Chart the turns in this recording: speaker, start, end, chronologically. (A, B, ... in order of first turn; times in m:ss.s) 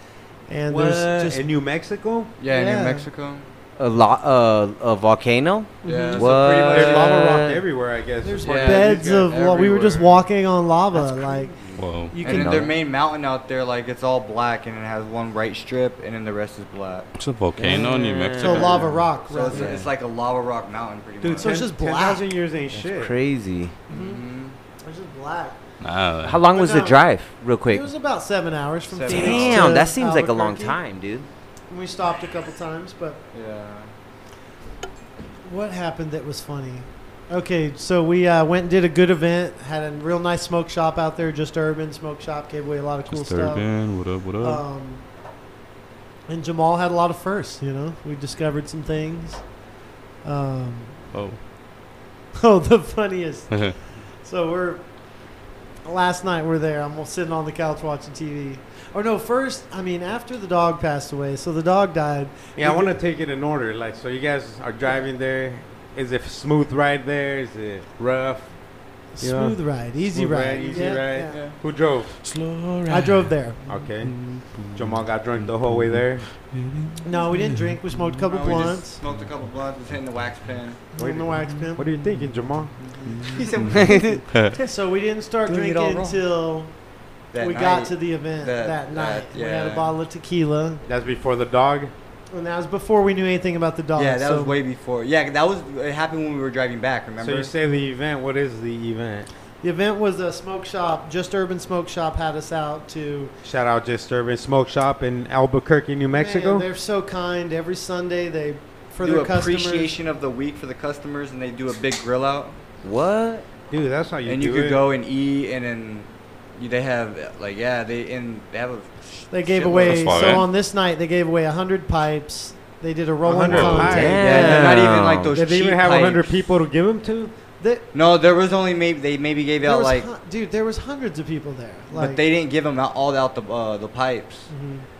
0:00.5-0:01.5 A
0:00.7-0:02.3 B
0:02.4-0:03.5 C
0:02.5-0:03.0 A
0:03.8-0:07.6 D
0:05.8-0:06.3 A
0:05.8-0:07.2 C
0:06.2-0:09.3 B
0:08.2-0:12.7 A
0:08.4-0:10.2 C
0:11.8-0:12.2 E
0:12.2-0:17.1 C
0:12.2-0:12.7 D
0:17.1-0:19.0 E
0:17.6-0:19.9 D
0:18.4-0:19.7 A
0:19.2-0:21.7 C
0:21.2-0:23.1 B
0:21.4-0:22.2 A
0:22.7-0:23.8 D
0:23.9-0:24.2 A
0:23.9-0:24.6 C
0:24.8-0:25.6 A
0:25.8-0:26.4 E
0:26.2-0:27.9 D
0:26.5-0:27.0 A
0:27.7-0:30.8 A
0:28.9-0:29.8 C
0:29.1-0:31.3 D
0:31.7-0:33.2 A
0:33.3-0:33.9 C
0:35.4-0:45.0 A
0:43.1-0:44.6 E
0:46.3-0:49.5 A
0:50.2-0:51.0 A
0:51.1-0:51.4 E
0:52.3-0:55.0 A
0:53.5-0:53.8 E
0:55.8-1:02.9 A
1:02.6-1:12.2 B
1:09.2-1:11.4 A
1:10.7-1:11.6 C
1:12.2-1:18.2 E
1:12.8-1:13.6 A
1:13.6-1:16.3 B
1:17.0-1:19.0 A
1:18.3-1:20.8 C
1:20.9-1:21.9 A
1:21.0-1:22.8 B
1:22.8-1:24.7 C
1:23.1-1:23.8 E
1:23.8-1:24.2 D
1:24.3-1:24.5 E
1:24.6-1:26.7 A
1:25.4-1:26.2 C
1:27.3-1:29.9 C
1:27.4-1:30.8 A
1:30.8-1:31.9 B
1:32.3-1:34.5 A
1:33.9-1:37.5 C
1:37.2-1:39.3 B
1:39.6-1:43.3 A
1:43.4-1:46.6 B
1:46.1-1:49.9 A
1:49.0-1:52.6 C
1:52.8-1:53.4 D
1:53.7-1:54.8 B
1:54.2-2:00.4 C
1:59.3-2:04.6 A
1:59.7-2:00.4 E
2:03.2-2:04.7 B
2:03.5-2:04.0 E
2:03.9-2:05.3 D
2:04.0-2:06.3 C
2:04.9-2:05.2 E
2:05.3-2:07.3 B
2:07.6-2:07.8 A
2:07.9-2:10.1 C
2:09.6-2:12.2 A
2:11.9-2:14.5 C
2:14.5-2:14.8 A